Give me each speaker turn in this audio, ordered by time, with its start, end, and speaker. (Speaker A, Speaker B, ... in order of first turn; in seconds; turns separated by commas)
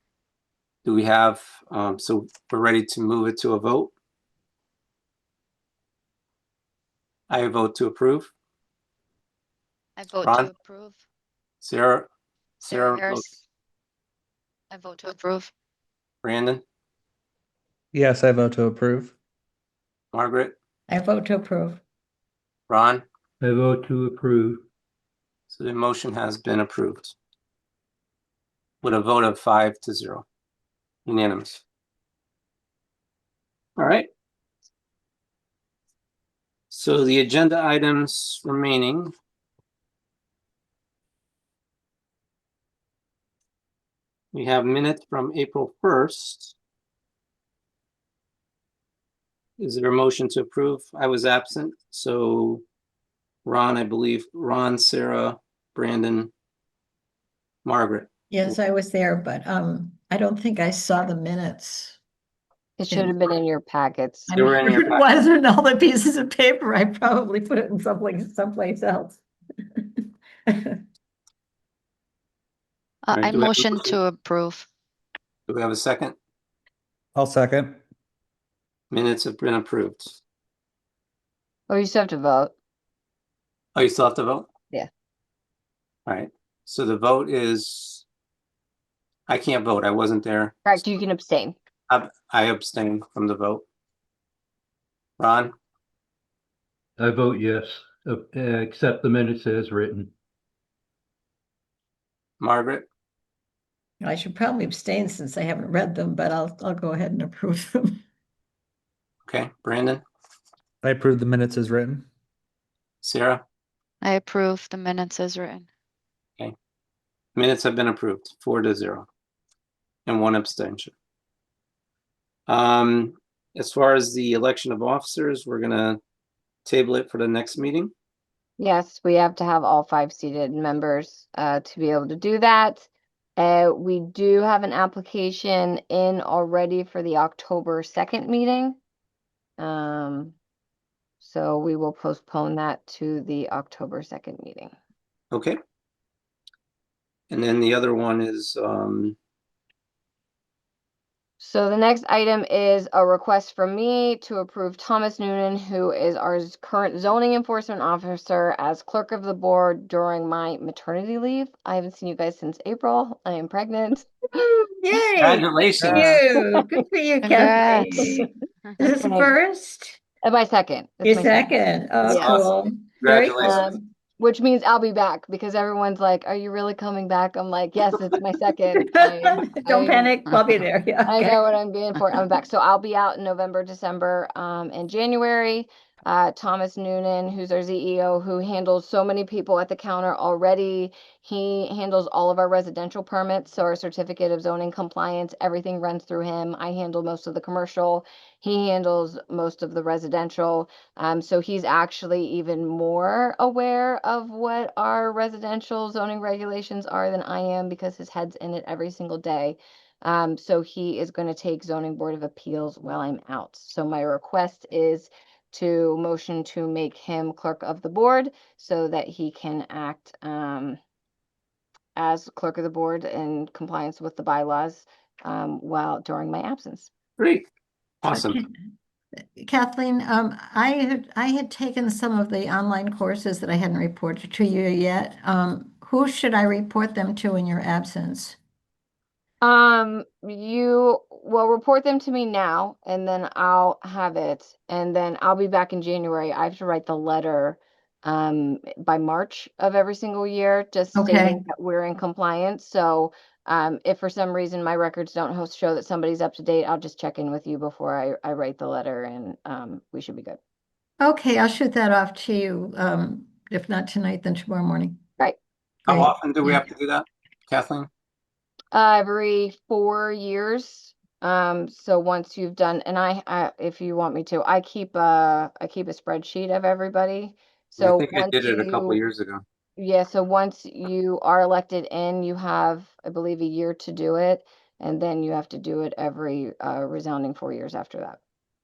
Speaker A: 0.8-3.9, Speaker A: 7.3-8.3, Speaker B: 10.0-11.0, Speaker A: 10.2-10.5, Speaker A: 11.6-12.1, Speaker B: 12.6-13.4, Speaker A: 12.7-13.3, Speaker B: 14.7-15.5, Speaker A: 16.2-16.6, Speaker C: 17.9-19.1, Speaker A: 20.1-20.6, Speaker D: 20.9-21.8, Speaker A: 22.7-23.0, Speaker E: 23.4-24.6, Speaker A: 25.5-27.1, Speaker A: 28.8-30.3, Speaker A: 31.1-31.6, Speaker A: 33.8-34.1, Speaker A: 36.7-39.1, Speaker A: 44.3-46.5, Speaker A: 49.6-52.6, Speaker A: 53.5-56.3, Speaker A: 57.6-58.5, Speaker D: 58.3-62.0, Speaker F: 62.8-64.3, Speaker D: 64.3-69.2, Speaker A: 64.3-65.0, Speaker D: 70.5-70.8, Speaker B: 73.1-74.7, Speaker A: 73.1-74.0, Speaker A: 75.5-76.2, Speaker C: 77.2-77.8, Speaker A: 78.9-80.2, Speaker F: 81.7-82.5, Speaker A: 83.8-84.5, Speaker A: 86.1-88.0, Speaker A: 89.3-90.8, Speaker F: 90.7-91.6, Speaker A: 91.9-93.7, Speaker A: 95.2-95.5, Speaker E: 97.0-100.1, Speaker A: 102.4-102.9, Speaker D: 104.0-108.0, Speaker A: 109.3-110.0, Speaker C: 110.8-112.1, Speaker A: 113.0-113.4, Speaker B: 114.0-115.7, Speaker A: 117.4-119.1, Speaker A: 120.1-120.9, Speaker A: 122.5-126.0, Speaker A: 126.7-127.9, Speaker F: 128.6-138.8, Speaker F: 139.6-140.4, Speaker F: 141.2-144.8, Speaker A: 145.3-145.6, Speaker A: 147.3-149.2, Speaker F: 151.4-164.2, Speaker D: 164.4-168.3, Speaker A: 165.2-166.2, Speaker F: 165.9-166.5, Speaker B: 167.2-168.2, Speaker D: 168.8-170.0, Speaker F: 169.0-169.3, Speaker F: 170.2-172.4, Speaker D: 171.0-173.7, Speaker A: 172.1-173.7, Speaker F: 173.4-180.1, Speaker D: 178.8-181.4, Speaker F: 181.1-220.8, Speaker F: 222.0-226.9, Speaker A: 227.2-227.5, Speaker A: 228.0-228.4, Speaker D: 228.1-228.5, Speaker D: 229.4-238.4, Speaker F: 239.4-260.4, Speaker D: 250.9-251.4, Speaker D: 261.0-265.0, Speaker D: 265.9-266.6, Speaker A: 265.9-267.9, Speaker F: 268.7-279.0, Speaker A: 277.8-279.4, Speaker F: 279.8-288.2